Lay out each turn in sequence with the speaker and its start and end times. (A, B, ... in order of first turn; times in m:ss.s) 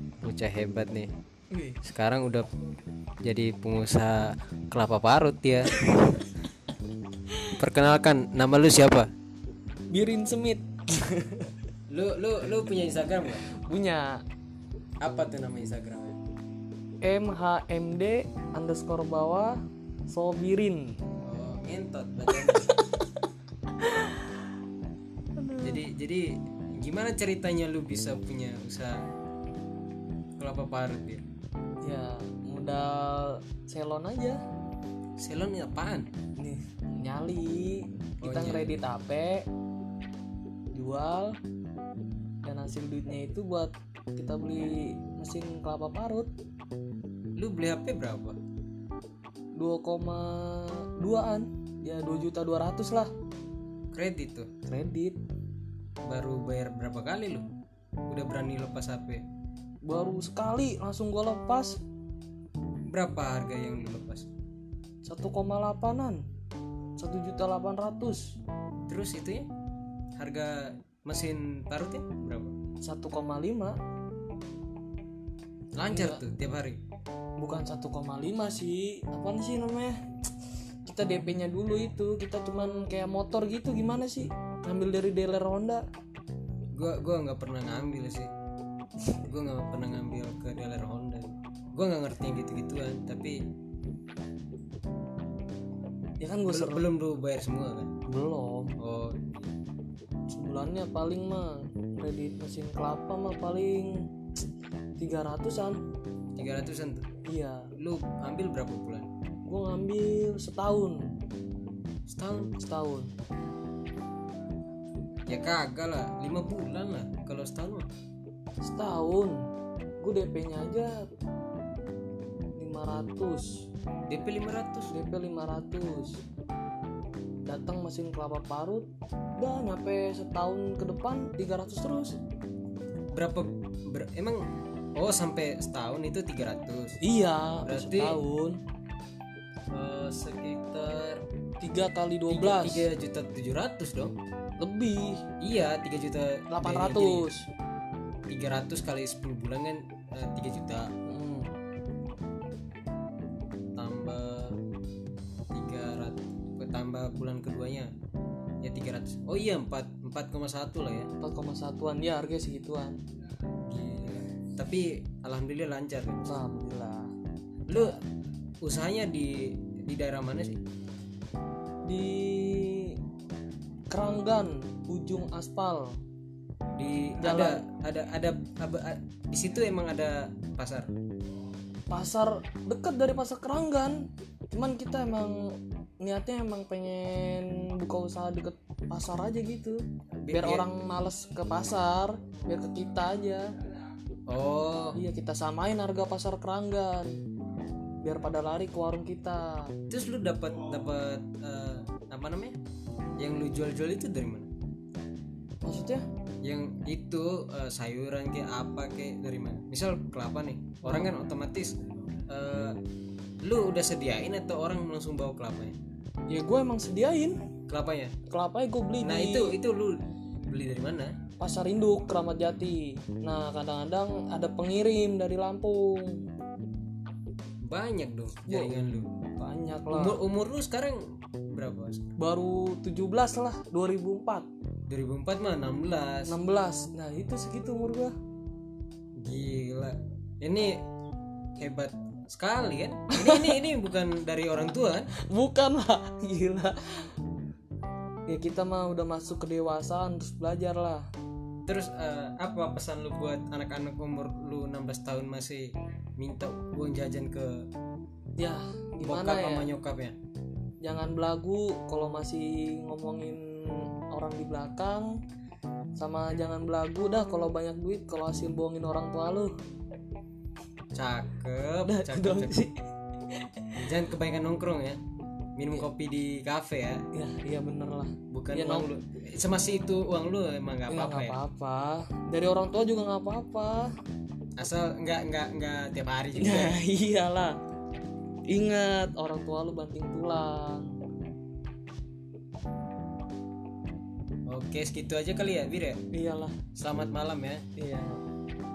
0:00.2-0:01.1 A
0:01.5-0:01.8 B
0:01.8-0:02.5 A
0:03.2-0:05.8 A
0:05.9-0:06.2 B
0:07.6-0:09.1 A
0:09.9-0:11.5 B
0:11.9-0:13.5 A
0:13.5-0:14.2 B
0:15.0-0:16.2 A
0:17.0-0:19.6 B
0:20.1-0:21.0 B
0:21.2-0:22.8 A
0:23.8-0:24.2 B
0:25.4-0:25.8 B
0:25.5-0:29.0 A
0:30.4-0:31.2 A
0:31.8-0:34.4 B
0:35.2-0:36.1 A
0:36.4-0:39.5 B
0:38.2-0:38.7 A
0:40.7-0:41.4 B
0:42.4-0:46.3 B
0:47.4-0:48.4 A
0:49.6-0:53.1 B
0:53.9-0:54.5 A
0:54.7-0:55.2 B
0:56.1-0:57.5 A
0:58.1-0:59.2 A
0:59.9-1:01.8 B
1:02.9-1:04.3 A
1:05.1-1:06.2 B
1:07.0-1:08.4 B
1:08.9-1:09.5 A
1:10.2-1:12.5 A
1:12.8-1:13.8 B
1:15.8-1:16.8 A
1:15.9-1:16.2 B
1:17.4-1:20.0 B
1:20.9-1:25.8 B
1:26.8-1:28.3 A
1:29.3-1:33.4 A
1:36.2-1:36.8 B
1:36.5-1:37.9 A
1:38.1-1:38.8 B
1:38.8-1:39.5 A
1:40.3-1:44.0 B
1:45.0-1:45.8 B
1:46.4-1:47.0 A
1:47.3-1:47.7 B
1:47.8-1:49.1 A
1:49.5-1:51.1 B
1:52.1-1:52.6 A
1:52.6-1:53.1 B
1:55.3-1:57.9 A
1:58.6-1:59.4 B
2:00.0-2:01.0 B
2:02.6-2:03.6 B
2:04.1-2:04.9 A
2:04.9-2:06.2 B
2:07.5-2:08.9 B
2:09.4-2:12.2 B
2:13.1-2:14.4 A
2:15.0-2:17.0 A
2:17.0-2:18.6 B
2:17.6-2:18.2 A
2:19.7-2:21.2 A
2:21.6-2:22.9 B
2:22.3-2:24.2 A
2:24.6-2:25.2 B
2:25.4-2:27.3 A
2:26.5-2:27.5 B
2:28.3-2:30.9 A
2:31.1-2:31.5 B
2:33.8-2:34.6 A
2:35.5-2:37.9 A
2:38.6-2:41.1 A
2:41.2-2:43.0 B
2:43.7-2:46.4 A
2:46.2-2:47.1 B
2:47.7-2:48.0 A
2:47.7-2:48.0 B
2:48.6-2:50.6 A
2:51.9-2:53.0 B
2:53.9-2:56.0 B
2:56.8-3:00.9 A
2:57.2-2:57.6 B
3:01.9-3:05.4 B
3:06.0-3:13.5 B
3:10.2-3:10.6 A
3:14.3-3:15.0 A
3:15.0-3:17.1 B
3:18.0-3:19.7 B
3:19.9-3:22.6 A
3:23.2-3:24.5 A
3:25.6-3:26.1 B
3:26.4-3:31.7 A
3:30.8-3:31.2 B
3:32.3-3:32.8 A
3:33.4-3:35.8 A
3:36.3-3:37.4 B
3:37.7-3:38.1 A
3:38.3-3:39.6 B
3:39.0-3:41.2 A
3:41.4-3:46.2 B
3:47.6-3:49.1 A
3:48.5-3:48.8 B
3:49.4-3:50.2 B
3:49.9-3:51.0 A
3:51.5-3:52.0 A
3:52.2-3:54.5 B
3:54.9-3:56.4 A
3:56.3-3:58.1 B
3:59.2-4:00.8 A
4:01.6-4:05.1 A
4:03.1-4:03.6 B
4:05.3-4:06.8 B
4:08.3-4:11.1 B
4:11.7-4:17.6 A
4:18.4-4:19.7 B
4:19.0-4:20.2 A
4:20.8-4:25.1 B
4:26.0-4:29.5 B
4:31.0-4:32.6 A
4:31.8-4:32.7 B
4:33.3-4:33.7 B
4:33.8-4:35.0 A
4:35.6-4:37.0 A
4:37.1-4:38.9 B
4:38.3-4:41.4 A
4:40.9-4:43.9 B
4:44.6-4:46.8 A
4:46.4-4:47.6 B
4:48.5-4:50.9 B
4:54.5-4:56.0 A
4:56.1-4:56.6 B
4:56.8-4:57.6 A
4:57.8-4:58.2 B